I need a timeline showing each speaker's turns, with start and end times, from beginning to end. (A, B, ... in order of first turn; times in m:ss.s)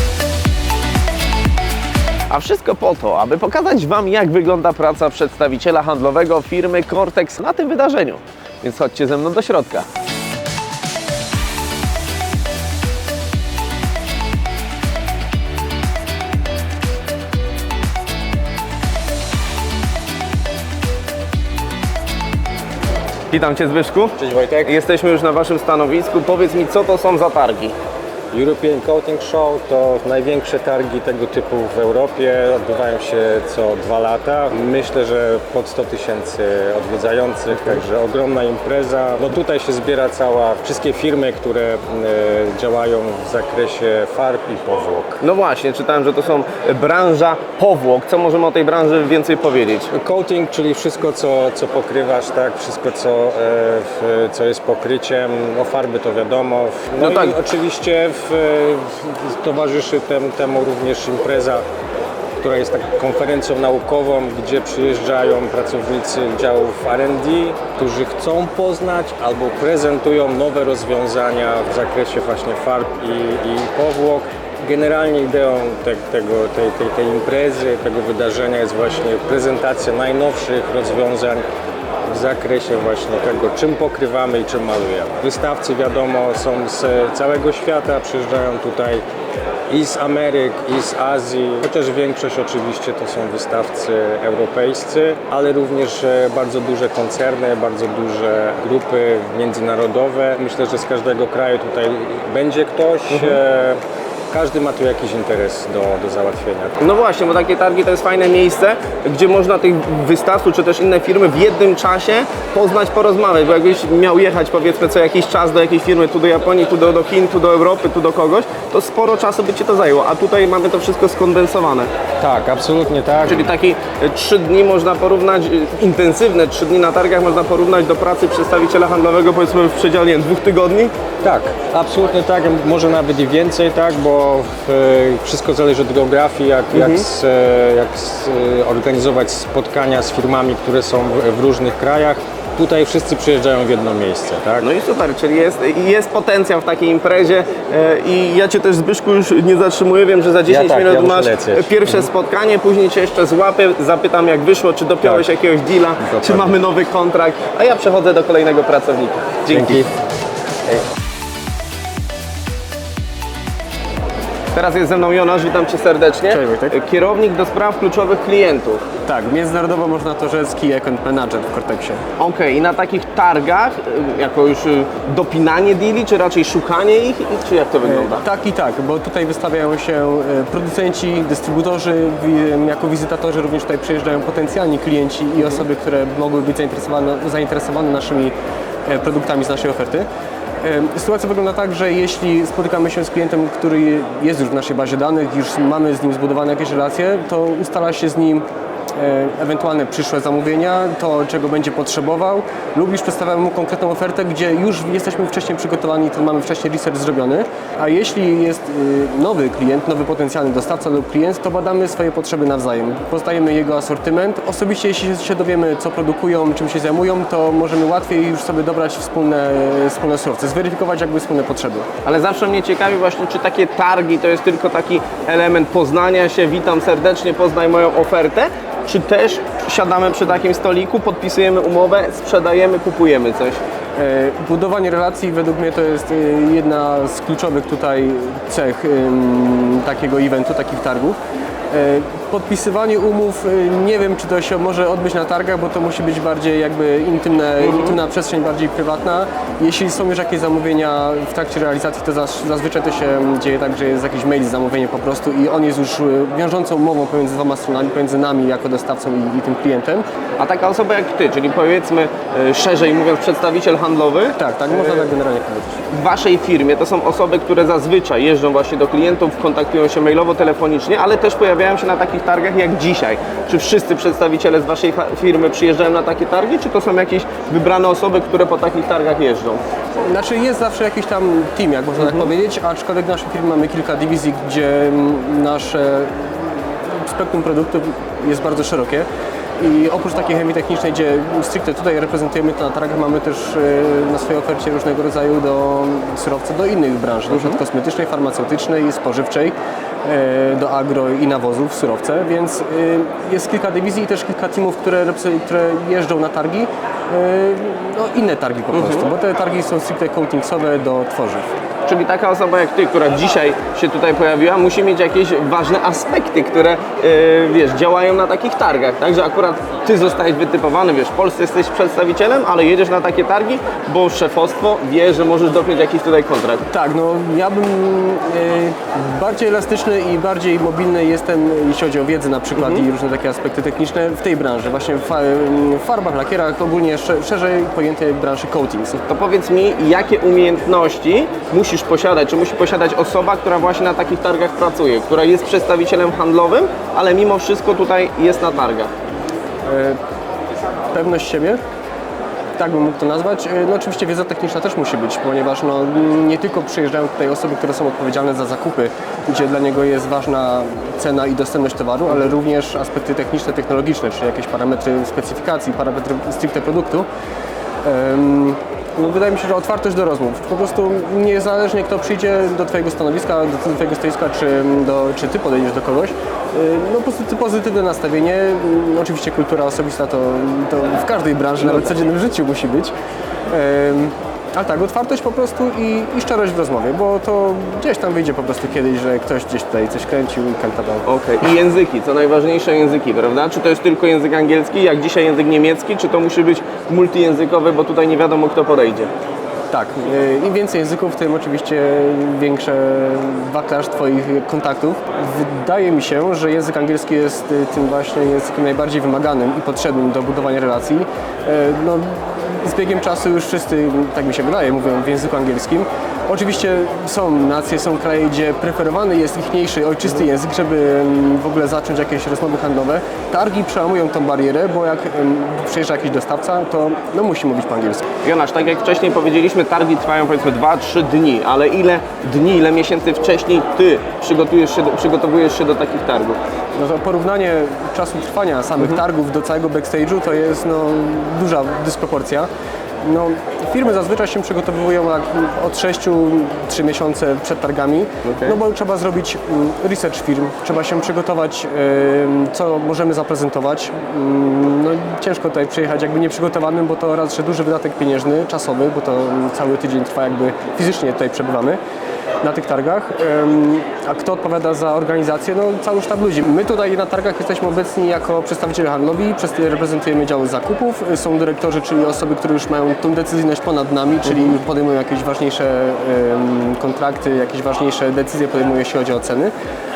0:02.3-0:09.8 A
0:23.3-0:27.7 A
0:24.2-0:24.7 B
0:28.3-0:45.2 B
0:45.2-0:49.9 A
0:49.9-1:01.6 B
0:57.0-0:57.4 A
1:02.4-1:21.4 B
1:22.1-1:29.0 B
1:29.7-1:43.8 B
1:44.3-1:46.8 B
1:46.8-2:01.9 A
2:02.2-2:03.5 B
2:03.3-2:10.9 A
2:11.2-2:24.6 B
2:24.6-2:39.8 A
2:30.4-2:32.1 B
2:36.0-2:36.6 B
2:39.5-2:39.9 B
2:44.5-2:48.8 A
2:46.3-2:46.7 C
2:49.0-2:52.0 C
2:52.2-2:58.2 A
2:57.8-3:08.3 C
3:08.8-3:10.1 C
3:10.6-3:41.9 C
3:42.0-3:53.6 A
3:54.0-4:01.2 C
4:01.7-4:20.0 C
4:07.6-4:08.0 A
4:20.4-4:25.1 A
4:24.4-4:25.8 C
4:25.9-4:39.6 A
4:40.0-4:49.1 C
4:42.0-4:42.3 A
4:49.6-5:11.5 C
4:57.3-4:57.6 A
5:08.7-5:09.1 A
5:11.9-5:26.6 A
5:26.7-5:39.0 C
5:32.5-5:32.8 A
5:39.1-5:48.9 A
5:49.6-5:50.0 C
5:50.9-5:51.6 C
5:52.6-6:07.1 C
6:07.8-6:22.9 C
6:21.6-6:21.9 A
6:23.5-6:31.0 C
6:31.0-6:39.1 A
6:39.7-7:08.0 C
7:08.2-7:16.4 A
7:16.8-7:22.5 C
7:23.0-7:41.8 C
7:28.2-7:28.6 A
7:42.4-7:59.5 C